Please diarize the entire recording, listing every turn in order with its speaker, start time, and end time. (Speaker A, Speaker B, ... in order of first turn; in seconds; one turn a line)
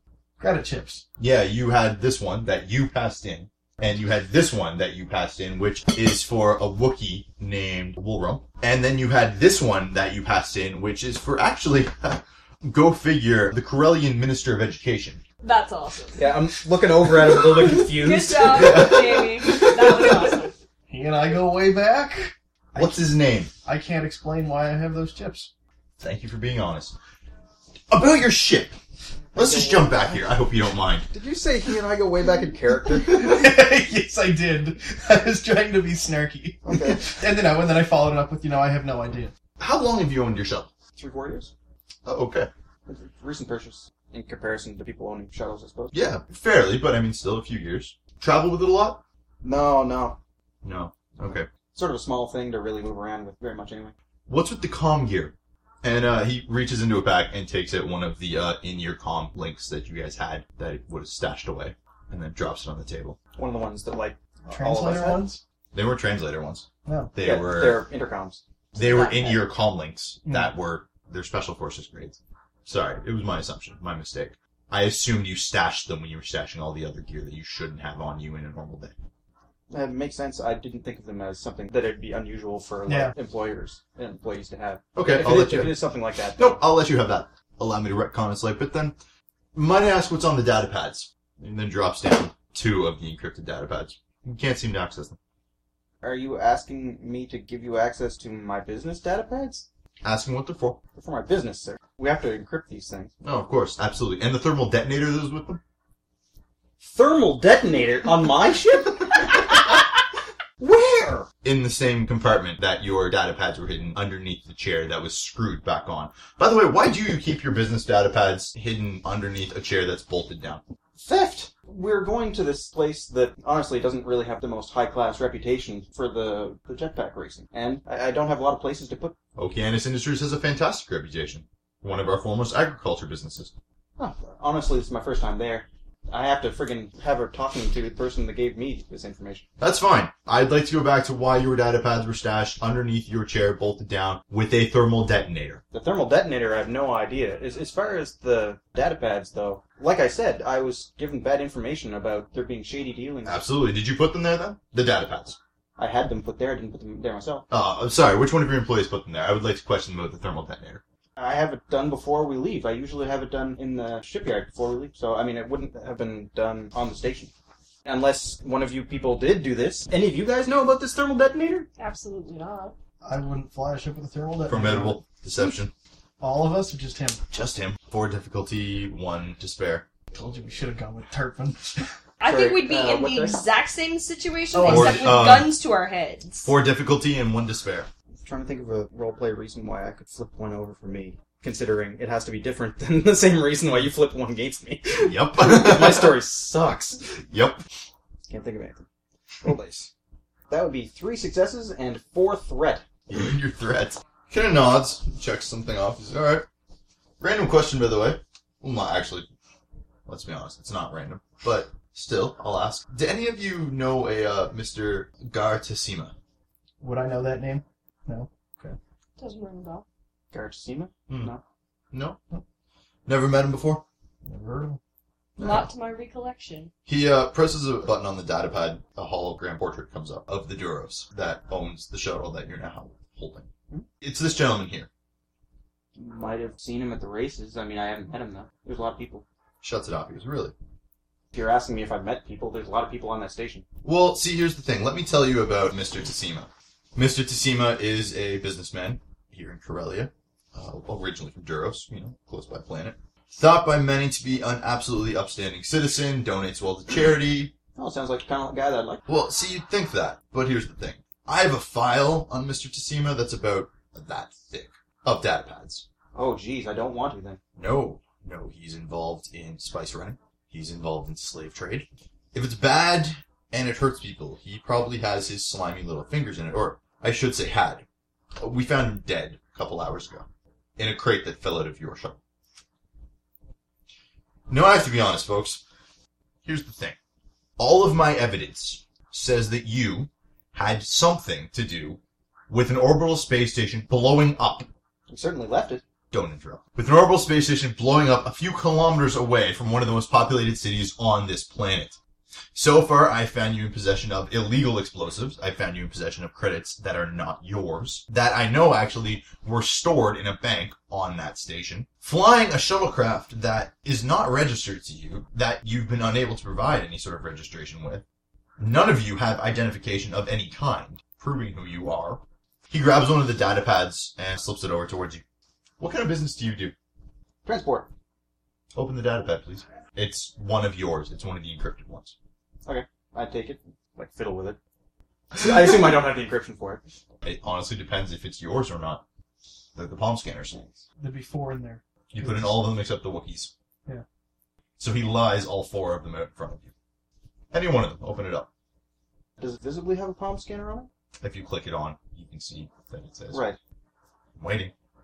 Speaker A: 0.4-1.0
Speaker B: 1.2-15.2
Speaker C: 15.4-16.3
Speaker D: 16.2-18.9
Speaker C: 17.7-20.5
Speaker B: 18.5-19.2
Speaker A: 20.9-23.0
Speaker B: 22.8-23.5
Speaker A: 23.6-25.5
Speaker B: 26.0-26.9
Speaker B: 27.9-28.8
Speaker D: 29.3-30.0
Speaker B: 29.3-31.1
Speaker D: 31.1-33.5
Speaker A: 33.0-39.3
Speaker D: 36.6-37.0
Speaker B: 39.6-40.7
Speaker D: 41.0-41.5
Speaker B: 42.0-42.5
Speaker D: 42.9-46.0
Speaker B: 45.9-49.0
Speaker D: 49.4-50.2
Speaker B: 50.6-51.5
Speaker D: 51.7-53.9
Speaker B: 54.3-63.2
Speaker D: 63.4-65.2
Speaker A: 64.5-65.4
Speaker B: 65.7-67.8
Speaker A: 66.8-67.1
Speaker D: 67.2-69.3
Speaker B: 68.7-78.9
Speaker C: 68.8-69.3
Speaker D: 79.7-86.6
Speaker A: 82.9-83.1
Speaker B: 84.9-85.8
Speaker B: 86.4-89.0
Speaker B: 89.5-95.2
Speaker D: 96.0-99.7
Speaker B: 100.0-100.8
Speaker D: 100.9-103.1
Speaker B: 103.2-105.6
Speaker D: 106.8-109.8
Speaker D: 110.6-111.3
Speaker B: 111.4-120.6
Speaker D: 121.0-129.2
Speaker B: 129.3-133.5
Speaker D: 134.0-139.4
Speaker B: 139.6-145.6
Speaker D: 145.7-153.4
Speaker B: 153.2-155.4
Speaker D: 155.8-157.4
Speaker B: 157.5-160.8
Speaker D: 161.2-167.3
Speaker D: 167.8-171.7
Speaker C: 171.8-172.7
Speaker A: 173.0-175.0
Speaker B: 174.5-175.7
Speaker A: 176.2-177.2
Speaker B: 177.3-179.8
Speaker A: 180.1-181.9
Speaker C: 182.2-186.5
Speaker D: 182.2-183.4
Speaker A: 184.5-185.2
Speaker B: 184.6-185.5
Speaker B: 186.4-187.9
Speaker D: 188.2-197.0
Speaker B: 195.0-196.2
Speaker B: 197.3-197.6
Speaker D: 198.3-198.8
Speaker D: 199.4-199.9
Speaker D: 200.5-202.8
Speaker B: 203.1-206.5
Speaker B: 207.2-209.3
Speaker B: 210.1-216.1
Speaker A: 216.8-218.8
Speaker C: 219.2-219.8
Speaker D: 220.3-221.4
Speaker B: 221.9-222.2
Speaker B: 223.1-223.8
Speaker A: 224.2-224.8
Speaker B: 225.4-225.7
Speaker C: 225.4-226.7
Speaker B: 226.8-233.5
Speaker B: 234.0-234.9
Speaker D: 235.9-239.2
Speaker B: 239.6-240.5
Speaker D: 241.3-243.6
Speaker B: 243.8-257.5
Speaker D: 257.8-259.0
Speaker B: 259.1-265.9
Speaker D: 266.1-267.4
Speaker B: 267.6-277.8
Speaker B: 278.4-280.3
Speaker B: 280.8-282.2
Speaker B: 284.5-285.6
Speaker B: 286.4-287.0
Speaker B: 287.6-294.7
Speaker D: 295.1-295.8
Speaker B: 296.1-302.0
Speaker B: 302.5-318.0
Speaker B: 318.6-325.2
Speaker B: 325.8-326.7
Speaker D: 327.4-327.9
Speaker B: 328.7-332.1
Speaker D: 332.6-334.6
Speaker D: 335.3-336.8
Speaker B: 337.2-339.0
Speaker B: 339.8-340.6
Speaker D: 340.5-340.8
Speaker A: 341.0-342.6
Speaker B: 342.1-343.5
Speaker B: 344.8-346.7
Speaker B: 347.5-348.5
Speaker D: 349.4-350.9
Speaker B: 351.2-353.4
Speaker D: 353.3-353.6
Speaker B: 354.4-354.7